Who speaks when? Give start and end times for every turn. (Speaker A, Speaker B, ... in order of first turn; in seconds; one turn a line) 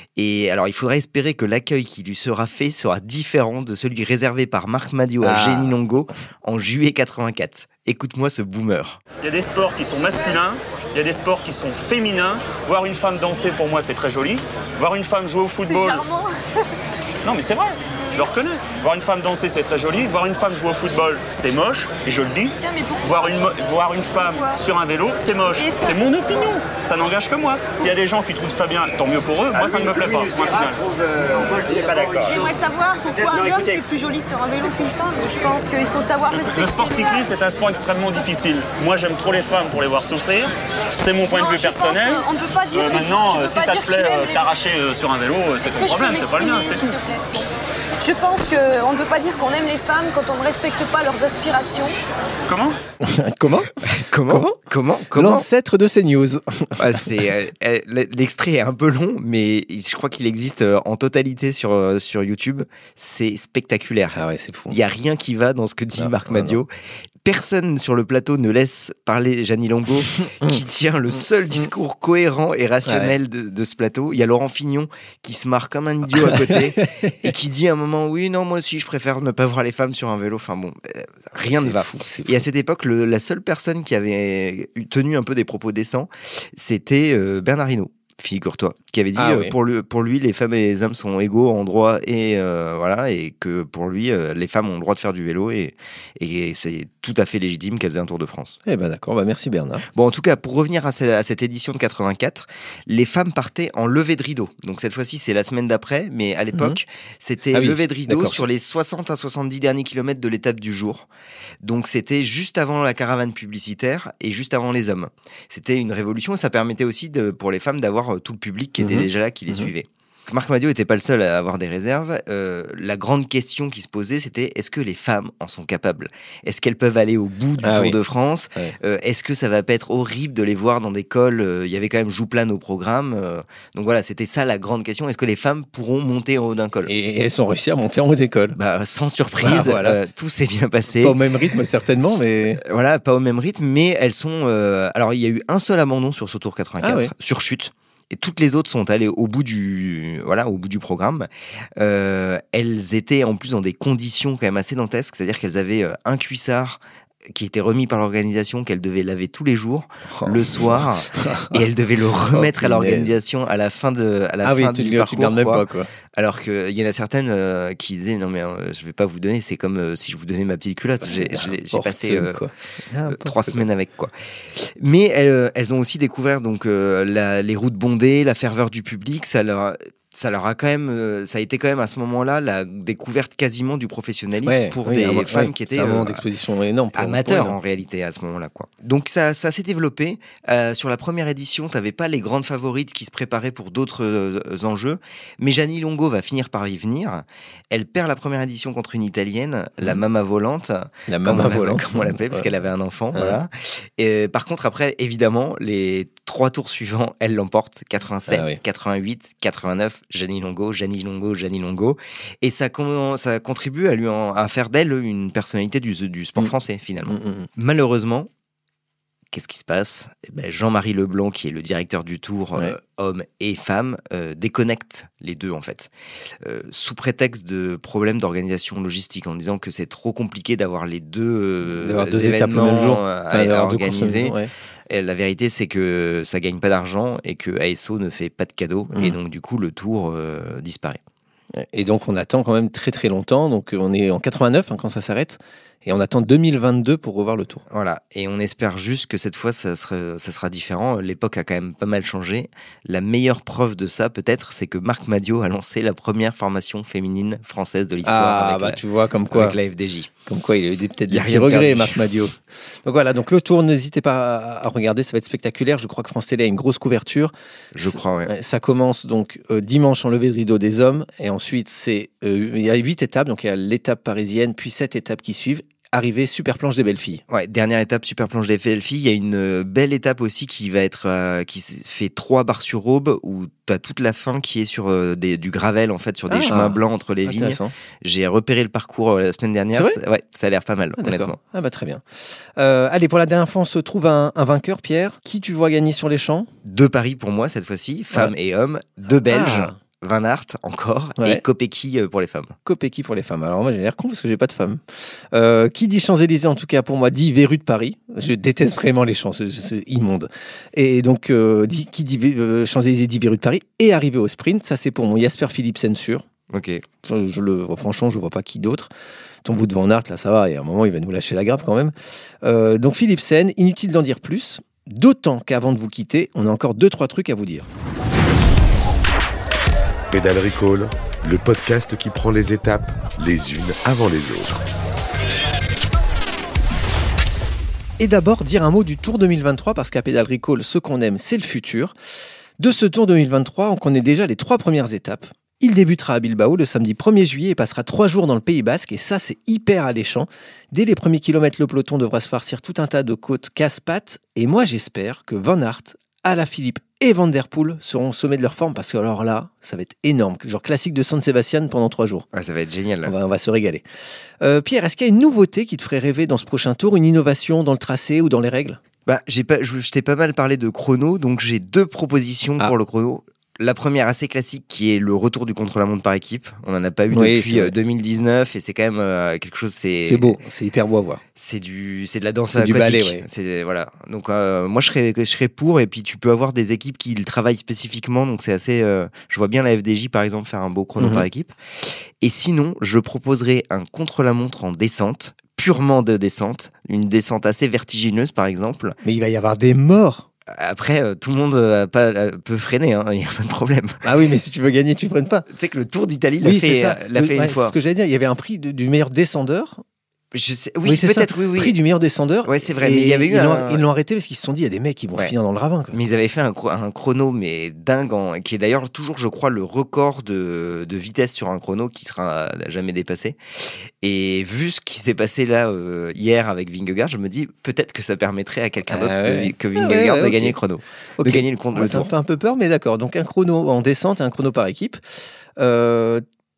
Speaker A: 0.1-9.0
Speaker B: 5.2-5.8
Speaker C: 9.2-16.0
Speaker D: 15.7-16.6
Speaker C: 17.2-32.4
Speaker D: 22.6-23.4
Speaker D: 24.3-24.6
Speaker D: 25.5-26.6
Speaker D: 31.5-37.4
Speaker C: 36.4-47.0
Speaker D: 41.3-44.6
Speaker D: 45.6-47.5
Speaker D: 48.0-52.0
Speaker C: 52.5-52.8
Speaker B: 53.0-54.6
Speaker A: 53.8-55.5
Speaker B: 55.1-57.1
Speaker A: 56.8-64.2
Speaker B: 64.1-64.8
Speaker A: 64.7-66.7
Speaker B: 65.9-66.5
Speaker A: 67.2-98.6
Speaker B: 70.2-70.6
Speaker B: 72.8-73.1
Speaker B: 76.2-77.1
Speaker B: 81.4-82.5
Speaker B: 89.2-89.5
Speaker B: 98.7-99.8
Speaker A: 99.9-111.1
Speaker B: 107.5-108.4
Speaker A: 111.6-136.9
Speaker B: 118.8-119.7
Speaker B: 127.6-128.0
Speaker B: 136.8-138.6
Speaker A: 138.5-141.2
Speaker B: 139.4-140.0
Speaker B: 141.0-142.6
Speaker A: 142.6-156.8
Speaker B: 146.8-147.1
Speaker A: 157.3-172.4
Speaker B: 160.1-161.6
Speaker B: 162.3-163.2
Speaker B: 164.4-165.9
Speaker B: 171.0-173.6
Speaker A: 173.1-186.2
Speaker B: 184.4-187.6
Speaker A: 186.9-218.3
Speaker B: 201.1-202.5
Speaker B: 203.1-203.4
Speaker B: 208.3-208.6
Speaker B: 217.1-217.5
Speaker A: 219.3-225.9
Speaker A: 226.4-234.4
Speaker B: 231.8-234.5
Speaker A: 234.9-241.0
Speaker B: 241.6-247.6
Speaker A: 247.7-258.8
Speaker B: 258.0-259.6
Speaker A: 259.3-260.1
Speaker B: 260.2-277.2
Speaker A: 261.1-262.1
Speaker A: 267.8-268.3
Speaker A: 277.3-291.4
Speaker B: 286.3-287.7
Speaker B: 289.7-290.0
Speaker B: 291.0-292.0
Speaker B: 292.6-296.5
Speaker A: 296.6-302.5
Speaker B: 299.3-299.8
Speaker B: 301.2-301.4
Speaker B: 302.6-304.8
Speaker B: 305.3-316.2
Speaker A: 316.5-316.8
Speaker B: 317.0-318.9
Speaker B: 319.4-327.7
Speaker E: 330.1-334.6
Speaker B: 338.0-341.9
Speaker B: 342.6-362.3
Speaker A: 362.3-363.1
Speaker B: 363.0-363.8
Speaker B: 364.4-368.8
Speaker A: 369.1-380.4
Speaker B: 377.1-377.8
Speaker B: 380.0-381.2
Speaker A: 381.4-391.5
Speaker B: 382.5-383.2
Speaker B: 391.0-391.2
Speaker A: 392.2-399.0
Speaker B: 399.0-400.3
Speaker A: 400.5-404.0
Speaker B: 404.0-405.5
Speaker A: 405.5-407.8
Speaker B: 406.4-409.8
Speaker A: 410.3-411.8
Speaker B: 410.8-416.0
Speaker A: 412.4-413.8
Speaker A: 415.9-423.4
Speaker A: 424.0-432.1
Speaker B: 428.9-430.6
Speaker B: 431.2-435.0
Speaker B: 435.6-436.2